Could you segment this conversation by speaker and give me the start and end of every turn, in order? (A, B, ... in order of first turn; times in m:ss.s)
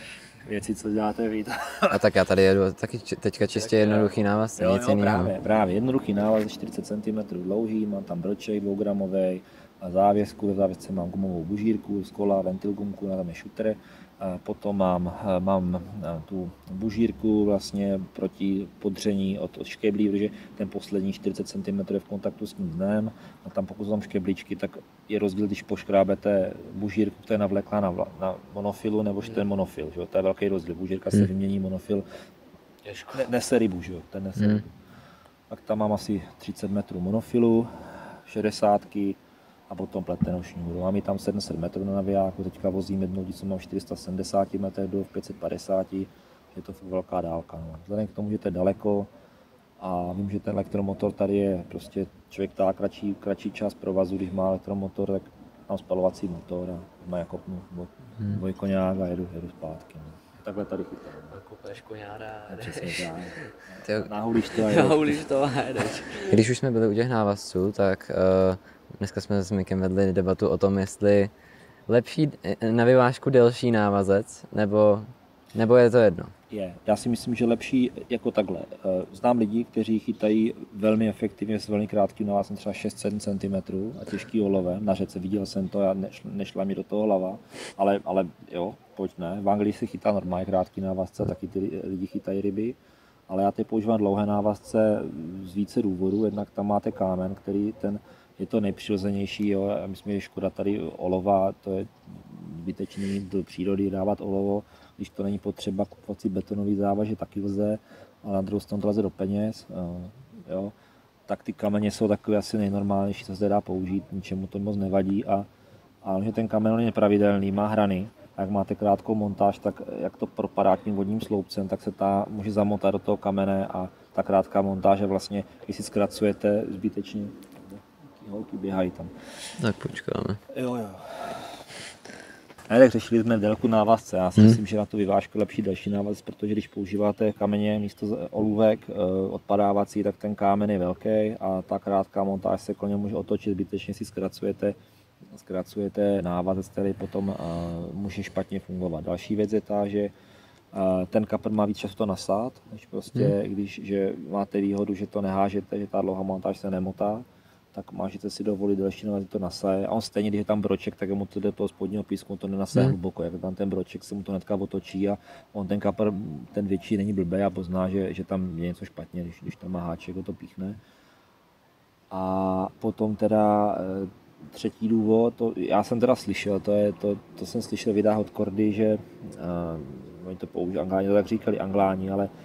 0:00.4-0:02.0 A
0:01.9-0:05.3 B
0:03.5-0:04.2 C
0:04.6-0:32.0 A
0:29.2-0:29.4 C
0:32.8-0:33.3 C
0:33.1-0:34.7 A
0:35.5-0:49.1 A
0:49.8-1:01.4 A
1:01.3-1:03.5 C
1:02.5-1:05.2 A
1:03.8-1:04.1 B
1:04.5-1:06.4 C
1:06.2-1:11.3 B
1:11.9-1:16.3 B
1:16.5-1:50.7 A
1:51.3-1:55.5 A
1:56.0-2:09.1 A
2:09.6-2:10.4 B
2:10.5-2:11.7 A
2:12.7-2:30.1 A
2:30.7-2:50.8 A
2:52.1-3:02.3 A